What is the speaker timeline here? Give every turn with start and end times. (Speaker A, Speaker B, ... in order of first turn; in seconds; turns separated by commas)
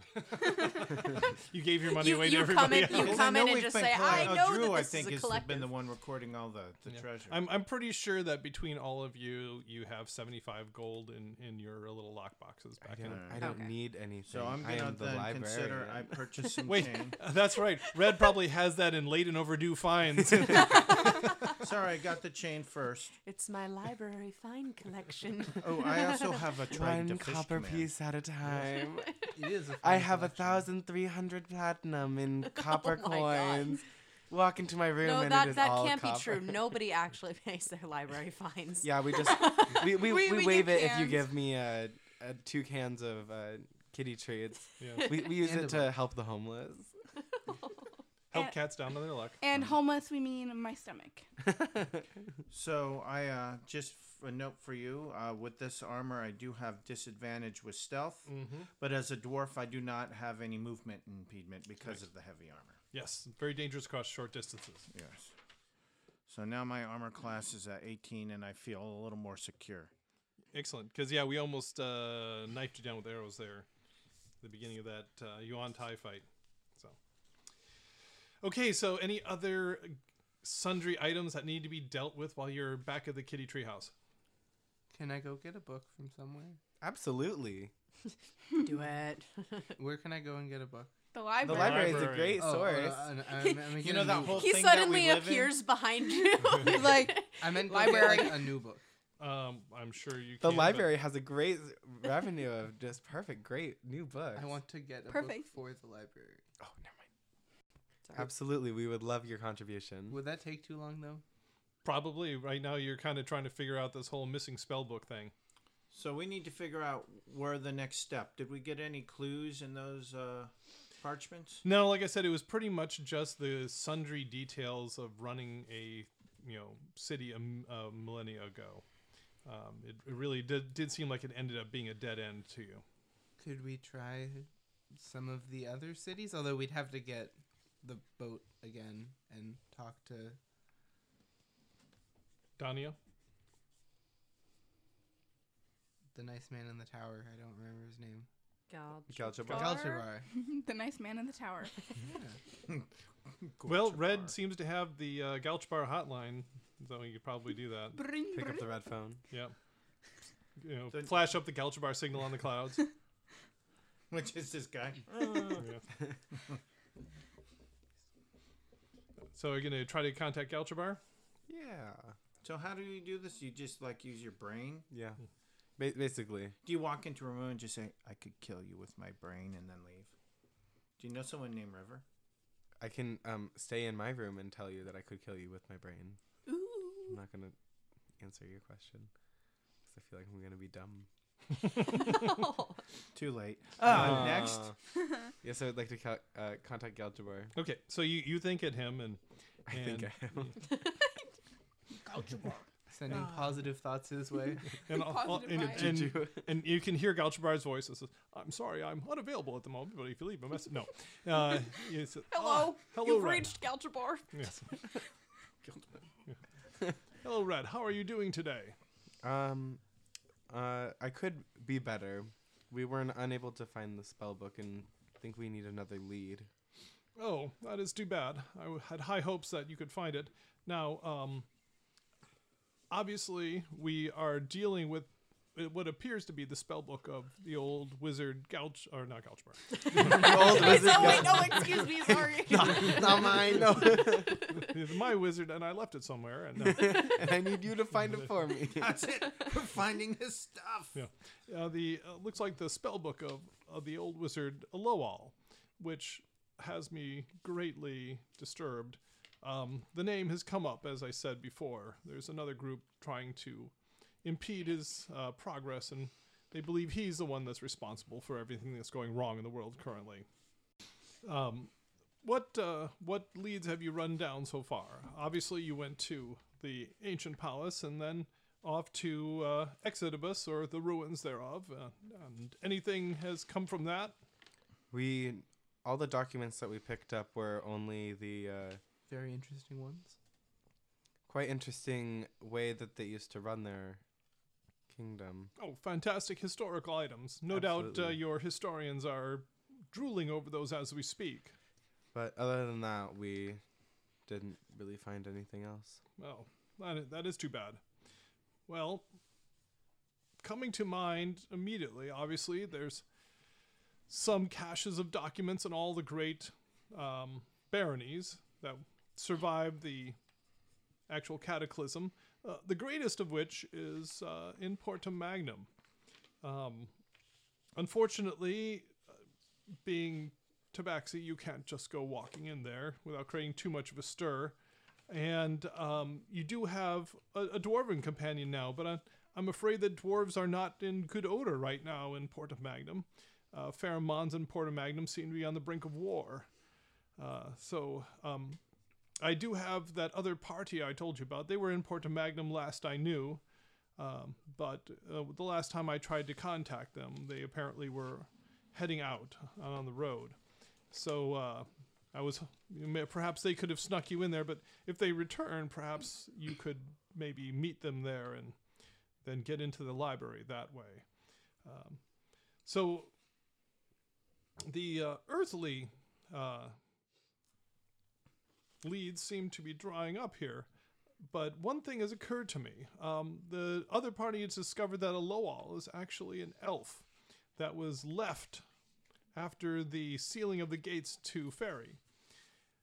Speaker A: 0.1-3.3, Speaker B: 1.9-5.7, Speaker C: 2.7-7.4, Speaker A: 6.9-13.3, Speaker D: 12.8-16.1, Speaker C: 13.1-13.5, Speaker B: 13.4-13.8, Speaker C: 14.2-17.2, Speaker A: 16.6-21.1, Speaker B: 16.7-17.0, Speaker B: 20.5-21.5, Speaker C: 21.6-23.1, Speaker B: 23.2-26.4, Speaker C: 25.6-27.9, Speaker D: 26.7-29.1, Speaker B: 28.7-29.3, Speaker E: 29.3-30.7, Speaker D: 29.8-36.7, Speaker B: 32.5-33.8, Speaker B: 35.0-40.0, Speaker D: 38.8-46.9, Speaker F: 39.5-41.3, Speaker A: 44.8-45.0, Speaker B: 45.0-45.3, Speaker E: 45.3-45.9, Speaker A: 48.3-49.4, Speaker F: 48.3-48.6, Speaker F: 49.4-51.3, Speaker D: 51.6-52.0, Speaker C: 52.5-62.8, Speaker A: 58.3-58.7, Speaker A: 62.9-64.9, Speaker C: 64.9-65.3, Speaker C: 66.3-69.9, Speaker A: 70.5-73.7, Speaker A: 74.4-77.0, Speaker A: 78.4-83.9, Speaker E: 84.9-86.6, Speaker D: 86.8-87.7, Speaker B: 88.5-89.8, Speaker E: 89.8-90.9, Speaker F: 91.1-92.2, Speaker D: 91.4-93.1, Speaker A: 91.5-92.5, Speaker E: 92.2-94.6, Speaker B: 93.4-98.3, Speaker C: 93.8-95.6, Speaker F: 96.2-98.5, Speaker E: 97.3-98.8, Speaker A: 99.2-100.9, Speaker D: 100.4-104.5, Speaker E: 104.3-106.4, Speaker F: 105.1-105.5, Speaker D: 106.6-107.0, Speaker D: 108.1-110.2, Speaker E: 110.1-111.2, Speaker A: 111.8-115.3, Speaker C: 115.9-121.6, Speaker A: 121.6-128.8, Speaker A: 129.4-132.8, Speaker E: 133.4-140.4, Speaker A: 142.6-143.0, Speaker E: 146.1-148.3, Speaker B: 148.7-150.0, Speaker D: 149.1-149.8, Speaker E: 149.5-150.2, Speaker F: 149.5-151.8, Speaker E: 152.0-152.4, Speaker C: 153.4-154.3, Speaker A: 153.7-158.0, Speaker F: 157.9-158.8, Speaker D: 158.3-159.2, Speaker A: 160.6-162.9, Speaker C: 160.9-161.2, Speaker C: 164.1-165.7, Speaker A: 165.5-165.8, Speaker A: 169.3-171.0, Speaker D: 171.5-172.2, Speaker C: 172.4-174.9, Speaker D: 174.9-175.2, Speaker D: 175.8-176.6, Speaker C: 176.6-180.1, Speaker C: 181.0-182.0, Speaker D: 182.8-186.2, Speaker F: 186.5-187.2, Speaker D: 187.1-187.6, Speaker D: 188.2-189.1, Speaker D: 189.8-191.1, Speaker B: 192.0-192.8, Speaker C: 193.1-194.7, Speaker D: 193.8-194.8, Speaker A: 193.9-194.3, Speaker D: 195.4-197.5, Speaker A: 197.5-200.6, Speaker D: 199.7-200.6, Speaker B: 200.7-200.9, Speaker F: 201.9-202.7, Speaker E: 202.9-204.8, Speaker F: 204.8-206.1, Speaker A: 204.8-213.6, Speaker D: 205.5-206.5, Speaker F: 212.3-215.0, Speaker A: 214.3-214.6, Speaker A: 217.2-218.8, Speaker D: 219.2-219.8, Speaker D: 220.5-226.5, Speaker A: 227.2-231.5, Speaker A: 232.9-241.0, Speaker B: 239.9-243.3, Speaker D: 239.9-244.5, Speaker E: 242.9-243.9, Speaker A: 244.5-247.2, Speaker D: 246.6-249.0, Speaker C: 248.7-250.9, Speaker A: 250.9-263.7, Speaker A: 264.2-270.2, Speaker A: 271.2-284.1, Speaker D: 284.9-288.8, Speaker E: 289.1-290.2, Speaker D: 291.3-294.0, Speaker D: 294.9-295.5, Speaker A: 295.6-301.5, Speaker D: 297.5-298.2, Speaker D: 302.1-303.6, Speaker D: 304.3-306.0, Speaker A: 306.2-307.8, Speaker A: 308.7-309.1, Speaker A: 310.4-313.0, Speaker A: 314.1-320.2, Speaker A: 321.1-325.7, Speaker A: 326.4-326.9, Speaker A: 327.8-329.0, Speaker A: 329.8-334.6, Speaker A: 335.1-346.5, Speaker A: 347.2-348.6, Speaker A: 349.2-353.4, Speaker A: 354.0-360.4, Speaker A: 360.9-368.6, Speaker A: 369.2-371.1, Speaker A: 371.6-372.0, Speaker A: 372.6-373.1, Speaker A: 374.6-376.8, Speaker A: 378.8-380.7, Speaker A: 381.2-388.6, Speaker A: 389.3-392.0